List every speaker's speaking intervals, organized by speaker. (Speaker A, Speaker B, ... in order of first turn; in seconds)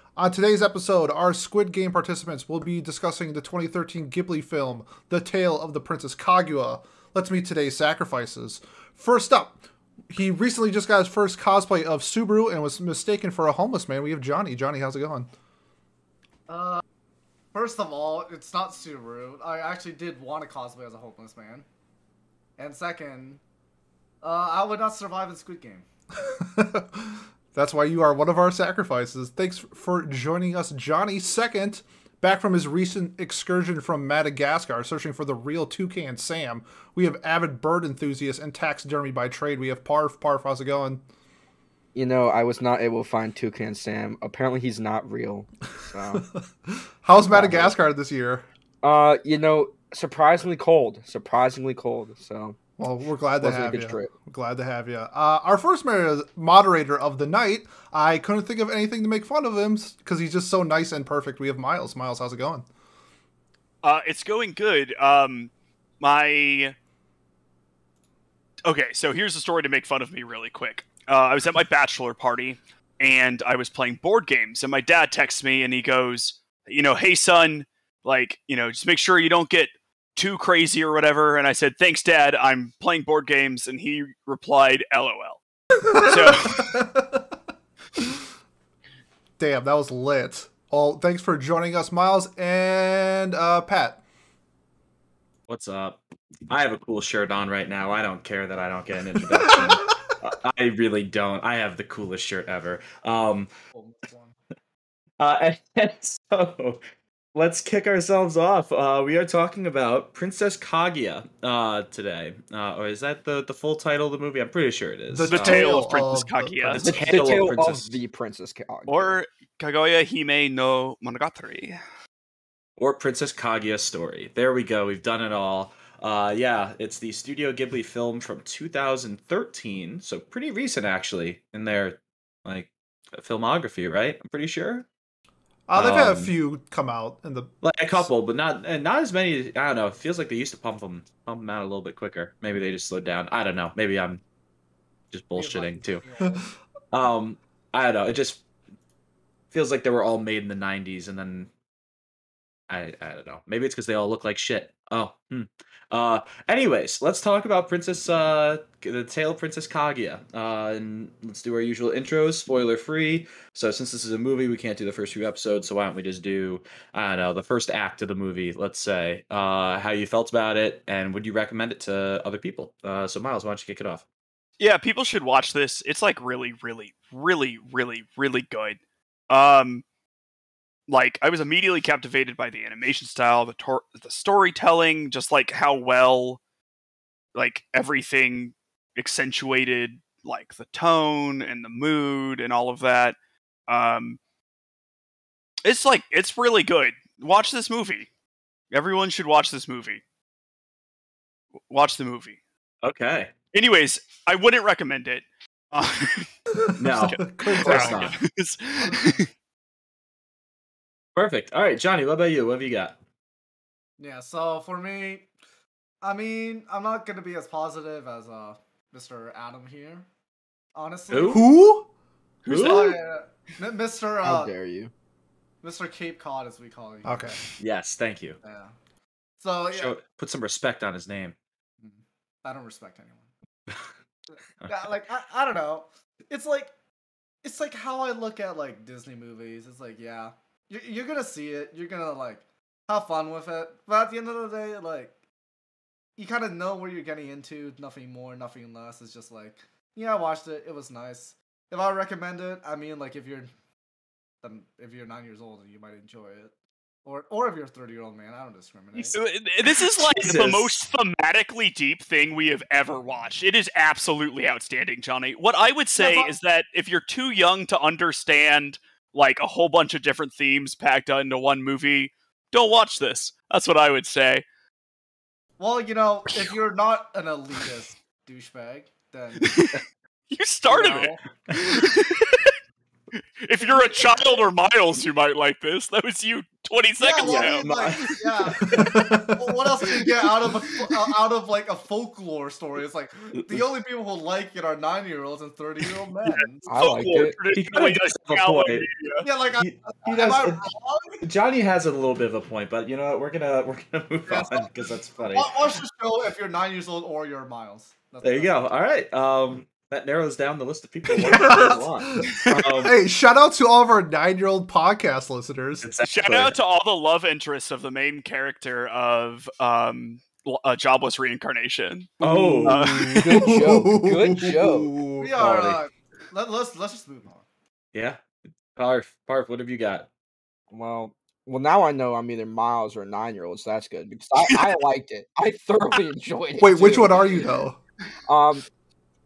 Speaker A: 0.2-15.3, 26.3-41.0, 47.0-48.5, 52.8-62.6, 85.9-87.2, 89.4-94.0, 99.3-99.9, 115.1-116.9, 135.7-138.1, 206.5-208.1, 221.2-221.9, 227.1-227.4, 288.6-289.6, 311.2-315.9, 322.2-325.3, 336.6-337.8
Speaker B: 16.5-16.8, 17.5-21.7, 22.6-23.4, 24.2-25.9, 103.7-104.3, 145.3-146.5, 208.8-209.2, 214.0-215.3, 216.0-220.1, 220.8-221.4, 222.5-224.5, 225.6-227.3, 228.4-228.8, 229.4-229.9, 231.8-233.3, 234.7-236.7, 237.4-245.2, 246.2-253.5, 254.4-256.5, 257.1-259.2, 266.0-266.3, 275.6-279.8, 280.7-281.2, 283.6-284.4, 287.0-296.7, 299.2-301.2, 304.3-304.7, 305.3-308.5, 325.2-327.4
Speaker C: 42.0-46.2, 47.3-47.7, 48.8-52.6, 53.4-54.1, 116.8-119.2, 224.2-224.9, 296.7-297.4, 322.2-324.9, 330.7-337.4, 338.3-338.6
Speaker D: 63.8-66.8, 68.7-86.8, 115.3-116.8, 118.9-121.8, 174.6-179.8, 180.9-186.4, 187.3-193.2, 193.7-194.2, 195.7-198.1, 198.7-200.0, 201.7-202.4, 203.5-206.3, 207.0-209.3, 222.4-223.0, 259.0-274.4, 276.3-276.6, 279.4-282.6, 283.1-288.9, 296.2-299.3, 312.3-312.6, 316.1-323.4
Speaker E: 95.5-103.5, 105.2-106.8, 107.3-115.7, 116.7-117.9, 122.8-134.9, 135.8-136.3, 137.6-144.2, 145.1-146.0, 146.9-148.4, 149.5-151.5, 152.7-174.0, 202.8-203.3, 206.8-208.2, 211.2-213.0, 221.1-221.4, 222.5-222.9, 227.6-228.4, 229.7-231.4, 259.9-260.7, 287.2-288.8, 297.5-298.9, 299.6-300.7, 301.2-305.8, 308.2-312.9, 315.8-316.6, 322.2-322.8, 325.4-325.8, 327.9-328.2, 328.8-330.1